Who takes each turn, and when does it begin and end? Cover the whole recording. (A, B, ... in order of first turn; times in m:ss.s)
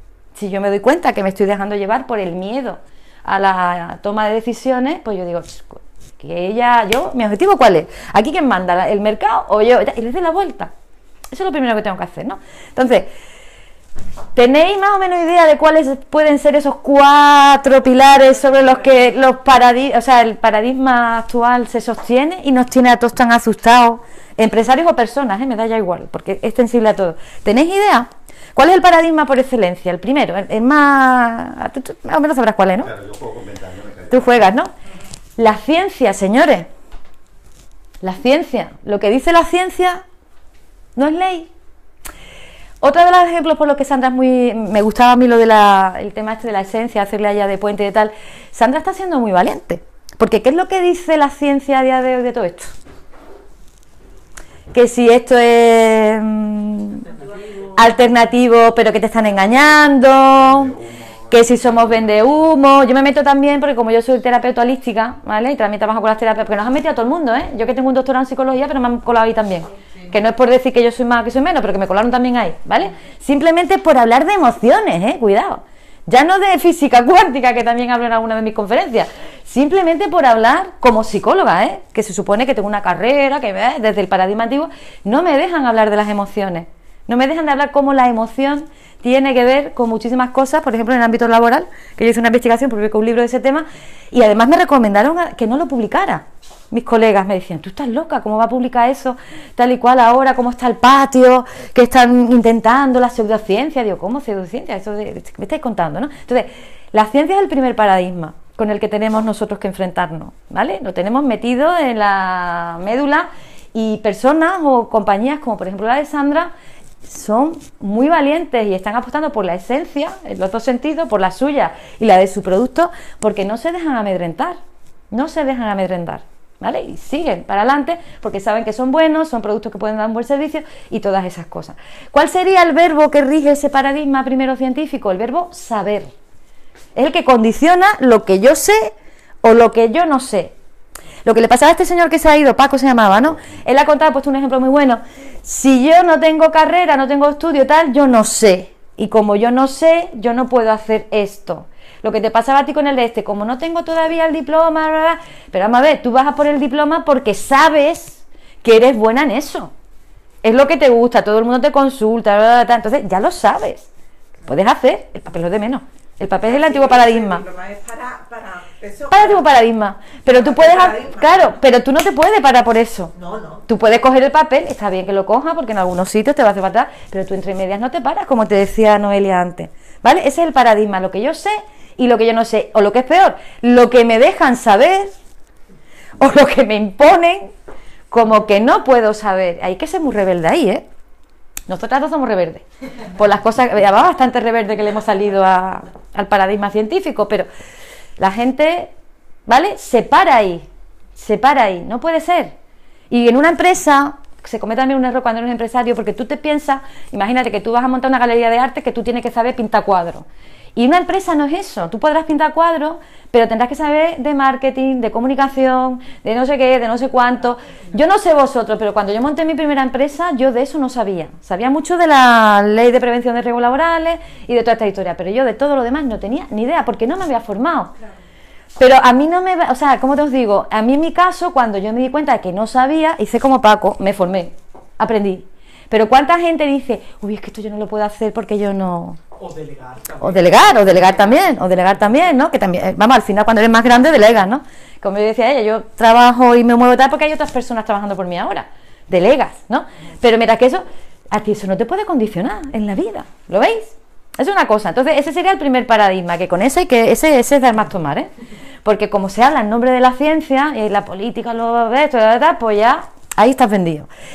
0:00.3-0:10.7 A
0:11.3-0:13.1 A
0:14.3-0:32.9 A
0:32.8-0:34.5 B
0:34.1-0:34.7 A
0:35.4-0:36.7 A
0:38.0-0:40.0 A
0:41.0-0:41.5 A
0:42.8-0:52.7 A
0:54.7-0:57.0 A
0:57.1-0:57.4 C
0:57.7-1:00.7 A
1:00.3-1:02.5 B
1:01.3-1:56.5 A
1:57.0-2:04.6 A
2:05.1-2:16.1 A
2:16.9-2:20.5 A
2:21.2-2:39.7 A
2:40.4-2:43.9 A
2:44.4-2:47.4 A
2:46.4-2:49.5 D
2:49.1-2:53.1 A
2:50.3-2:51.6 D
2:53.1-2:53.7 D
2:53.7-3:05.1 A
3:06.2-3:07.5 A
3:08.1-3:10.8 A
3:11.7-3:17.5 A
3:18.2-3:18.9 A
3:19.5-3:22.5 A
3:23.1-3:47.9 A
3:48.8-3:59.2 A
3:59.4-4:01.9 C
4:00.2-4:18.3 A
4:18.8-4:24.1 A